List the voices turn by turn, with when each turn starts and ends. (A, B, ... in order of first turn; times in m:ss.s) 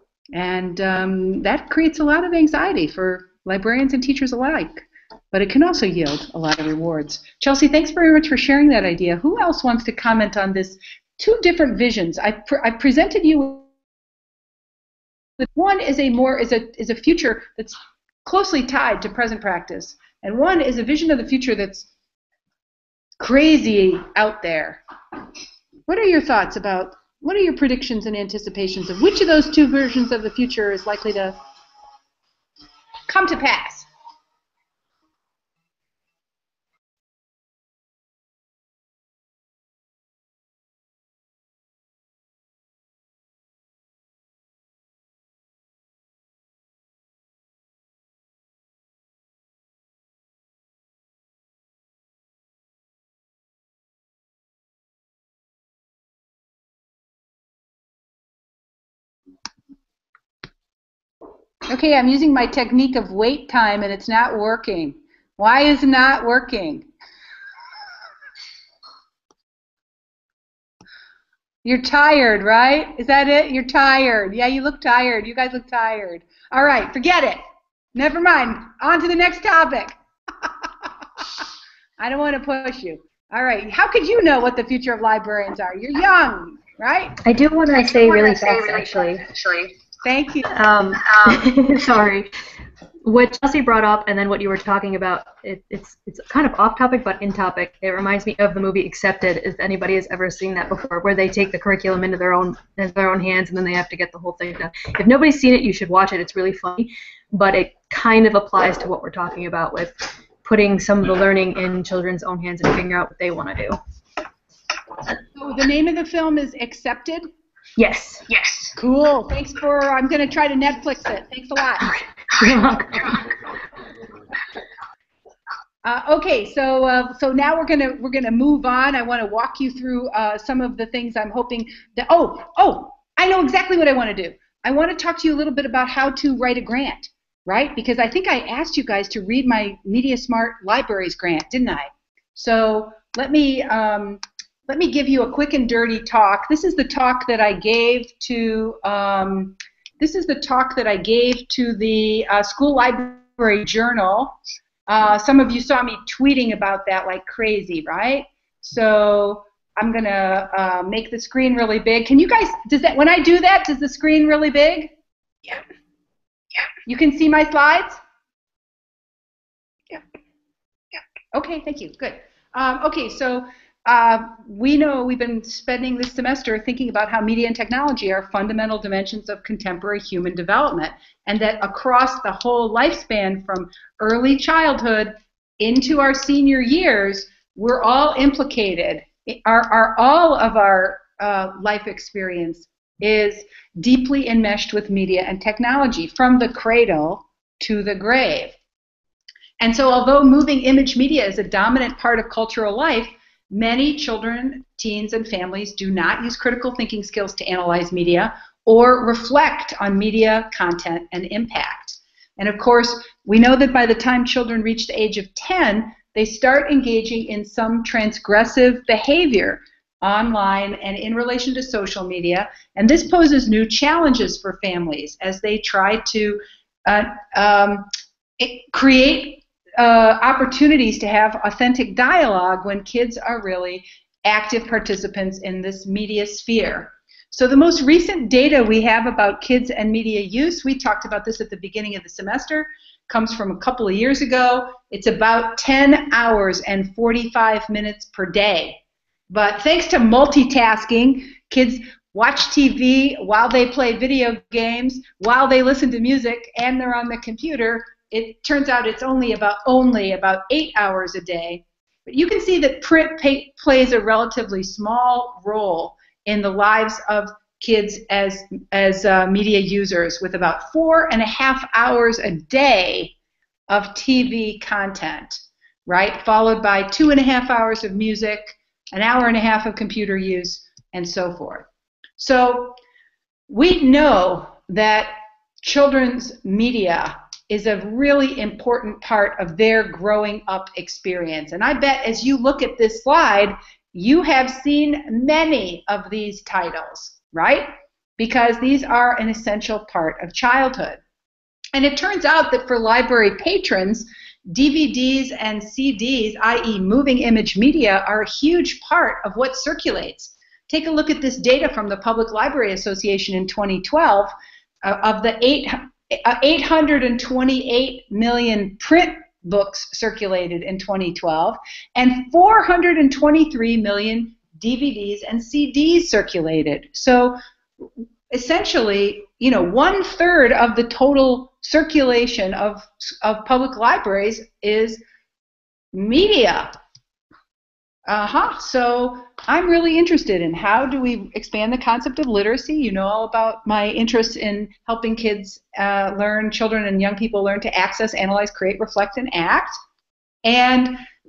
0:00.3-0:13.7 A
0:15.4-0:21.9 A
0:23.2-0:24.8 A
0:25.9-0:31.4 A
0:33.1-0:33.9 A
1:01.7-1:06.9 A
1:11.6-1:17.4 A
1:17.9-1:19.9 A
1:22.0-1:27.2 A
1:27.2-1:29.3 B
1:27.7-1:29.7 C
1:30.0-1:30.5 A
1:30.5-1:32.3 B
1:31.0-1:31.4 C
1:33.0-1:53.8 B
1:55.4-1:57.2 A
1:57.8-1:58.2 B
1:58.3-1:58.7 C
1:58.8-2:01.9 A
2:02.4-2:03.2 B
2:02.4-2:03.3 C
2:05.8-2:34.4 A
2:34.9-2:44.9 A
2:46.8-2:48.0 A
2:51.3-3:18.6 A
3:19.6-3:47.8 A
3:48.4-4:33.1 A
4:33.7-4:41.7 A
4:42.2-4:42.8 A
4:43.5-5:01.0 A
5:01.7-5:14.3 A
5:14.8-5:27.4 A
5:28.3-5:35.0 A
5:35.9-5:36.7 A
5:38.1-5:49.7 A
5:50.4-5:51.0 A